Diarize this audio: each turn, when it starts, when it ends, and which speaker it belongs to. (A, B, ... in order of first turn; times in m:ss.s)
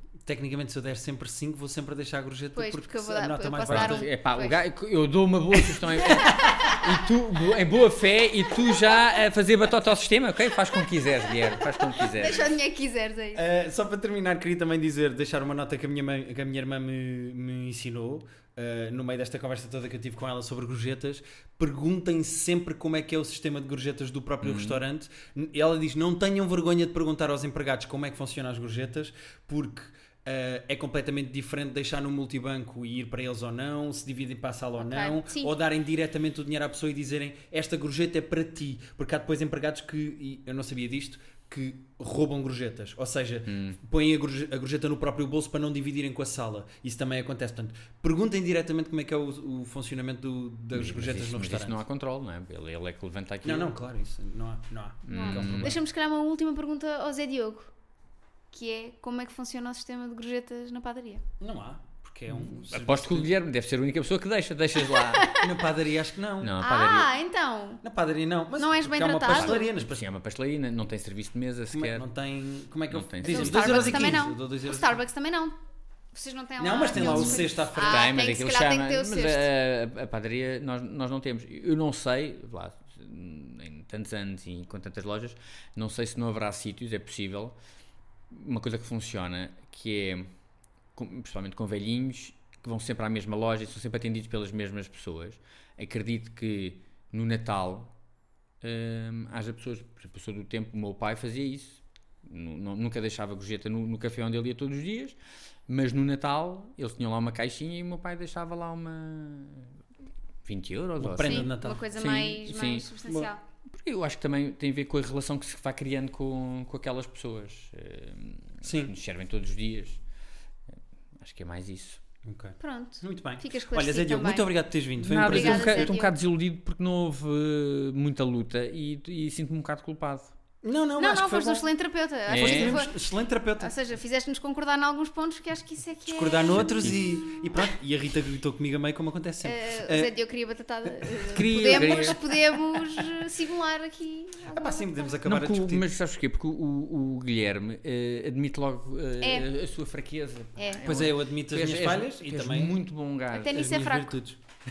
0:00.2-0:04.1 A
0:02.6-0:04.6 B
0:03.7-0:12.4 C
0:06.4-0:06.8 B
0:11.8-0:13.4 B
0:13.4-0:51.8 A
0:24.4-0:24.8 C
0:34.8-0:35.5 B
0:43.5-0:43.8 C
0:50.7-0:53.7 C
0:53.4-0:55.8 A
0:55.1-0:55.8 C
0:55.1-0:57.7 B
0:58.5-1:01.2 B
1:01.4-1:03.3 A
1:02.3-1:05.3 C
1:04.8-1:05.6 B
1:05.4-1:06.5 A
1:06.4-1:07.1 C
1:06.6-1:07.8 B
1:07.8-1:10.0 A
1:08.6-1:09.7 B
1:09.3-1:12.0 C
1:11.7-1:15.0 A
1:12.9-1:14.3 C
1:13.2-1:15.6 B
1:16.1-1:19.5 B
1:16.6-1:18.1 A
1:17.0-1:27.6 C
1:28.3-1:30.3 C
1:31.0-1:37.9 C
1:38.6-1:49.8 C
1:50.4-1:52.9 C
1:51.0-1:51.9 A
1:51.2-1:53.4 B
1:53.6-2:00.0 C
1:58.6-1:58.9 A
2:00.7-2:02.0 C
2:02.2-2:05.9 A
2:02.6-2:04.6 B
2:05.0-2:10.4 C
2:05.1-2:06.1 B
2:10.6-2:11.7 A
2:11.0-2:12.9 B
2:12.3-2:13.7 A
2:12.3-2:12.8 C
2:13.6-2:17.4 B
2:16.1-2:20.1 A
2:16.6-2:17.3 C
2:19.4-2:25.2 B
2:21.0-2:22.2 A
2:21.3-2:22.2 C
2:24.4-2:25.9 A
2:25.2-2:33.6 C
2:29.2-2:29.5 B
2:30.6-2:30.9 B
2:30.8-2:32.8 A
2:33.3-2:34.2 B
2:33.5-2:34.4 A